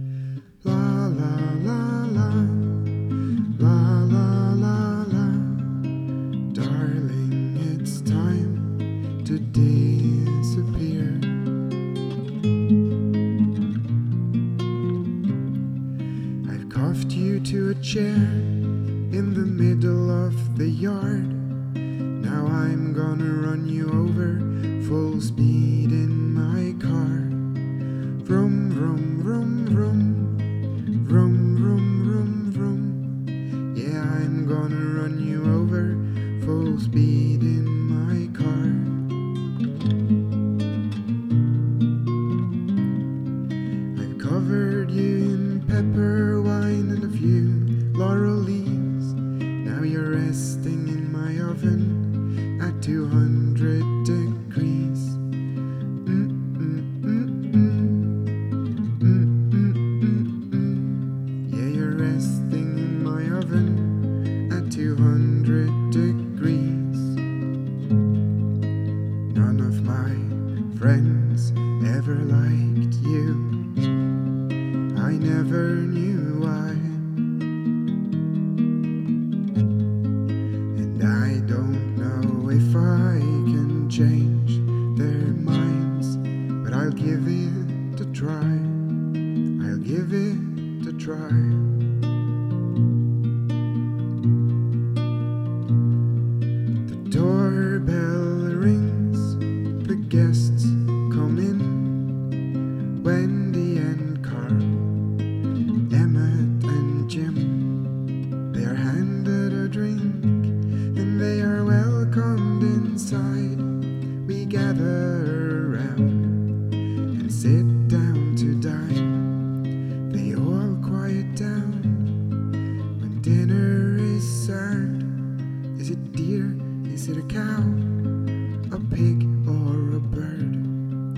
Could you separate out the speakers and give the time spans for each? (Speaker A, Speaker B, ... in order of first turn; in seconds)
Speaker A: 0.6-2.9, 3.5-5.9, 6.5-11.3, 16.4-21.4, 22.2-27.4, 28.2-30.5, 31.0-39.0, 43.9-55.2, 56.0-58.4, 59.0-67.2, 69.3-73.6, 74.9-77.2, 80.7-88.8, 89.6-91.8, 96.8-102.2, 103.0-105.0, 105.9-107.8, 108.5-113.6, 114.2-116.5, 117.1-119.4, 120.1-122.2, 123.0-125.1, 125.8-128.0, 128.7-130.7